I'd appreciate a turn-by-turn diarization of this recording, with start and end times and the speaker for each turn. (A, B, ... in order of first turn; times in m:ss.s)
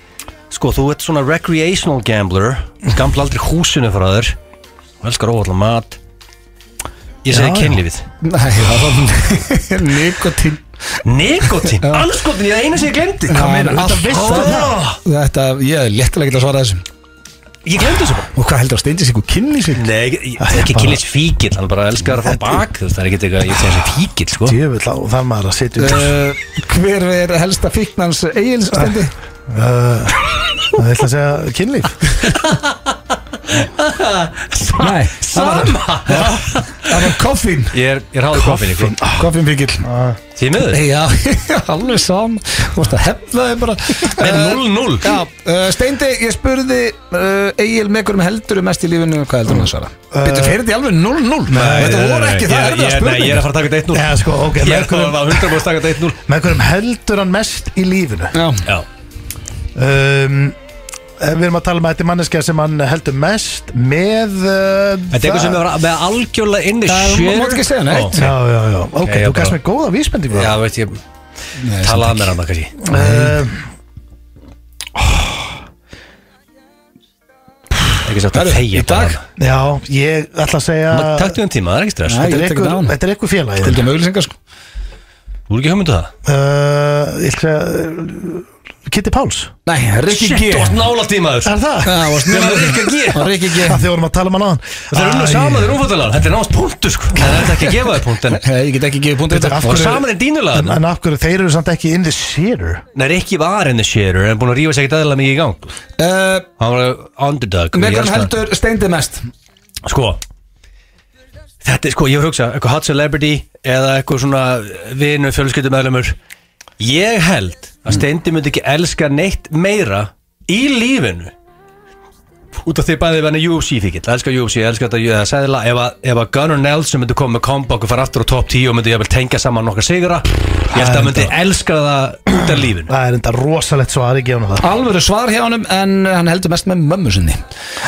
0:00.5-0:04.3 A
0:05.0-0:06.0 A
0:07.2-0:08.0 A
0:07.3-0:07.8 B
0:08.2-0:10.6 C
0:11.0-0:13.5 A
0:11.7-0:12.0 C
0:13.3-0:16.8 C
0:13.3-0:14.8 B
0:14.1-0:15.0 A
0:17.6-0:18.3 A
0:18.3-0:19.8 C
0:19.7-0:24.6 A
0:20.4-0:21.0 B
0:22.2-0:22.6 B
0:24.4-0:26.2 B
0:25.8-0:29.1 C
0:29.5-0:32.1 B
0:32.3-0:32.7 A
0:33.5-0:37.0 A
0:34.8-0:37.8 C
0:37.7-0:39.0 A
0:38.3-0:39.3 B
0:39.1-0:39.9 C
0:39.8-0:40.2 B
0:40.4-0:40.8 A
0:40.7-0:53.4 C
0:44.1-0:45.1 A
0:50.1-0:50.6 B
0:51.5-0:52.0 B
0:51.5-0:56.2 A
0:53.9-0:55.6 B
0:56.2-0:58.4 B
0:58.3-0:58.6 C
0:59.7-1:00.6 B
1:01.2-1:05.6 B
1:05.1-1:08.3 A
1:06.8-1:08.2 C
1:08.1-1:10.6 B
1:09.0-1:09.5 A
1:10.3-1:11.0 A
1:11.6-1:12.3 C
1:11.8-1:12.8 A
1:12.8-1:13.6 B
1:12.9-1:13.3 C
1:18.0-1:19.2 A
1:18.3-1:19.2 C
1:19.4-1:21.4 B
1:20.9-1:22.3 A
1:22.1-1:23.0 C
1:22.2-1:23.8 B
1:23.6-1:24.3 C
1:25.5-1:26.1 A
1:26.2-1:29.5 B
1:29.6-1:30.8 C
1:30.1-1:31.6 A
1:31.4-1:32.7 B
1:31.8-1:33.8 C
1:32.2-1:33.3 A
1:33.5-1:35.8 B
1:34.9-1:38.4 A
1:38.4-1:39.8 C
1:39.3-1:42.8 B
1:39.6-1:40.8 A
1:42.9-1:45.8 A
1:46.0-1:46.5 C
1:46.6-1:48.3 A
1:47.7-1:49.2 C
1:49.8-1:50.2 A
1:51.6-1:56.2 A
1:56.8-2:01.3 A
2:02.6-2:12.9 A
2:10.7-2:11.3 B
2:12.3-2:14.6 B
2:14.6-2:17.4 C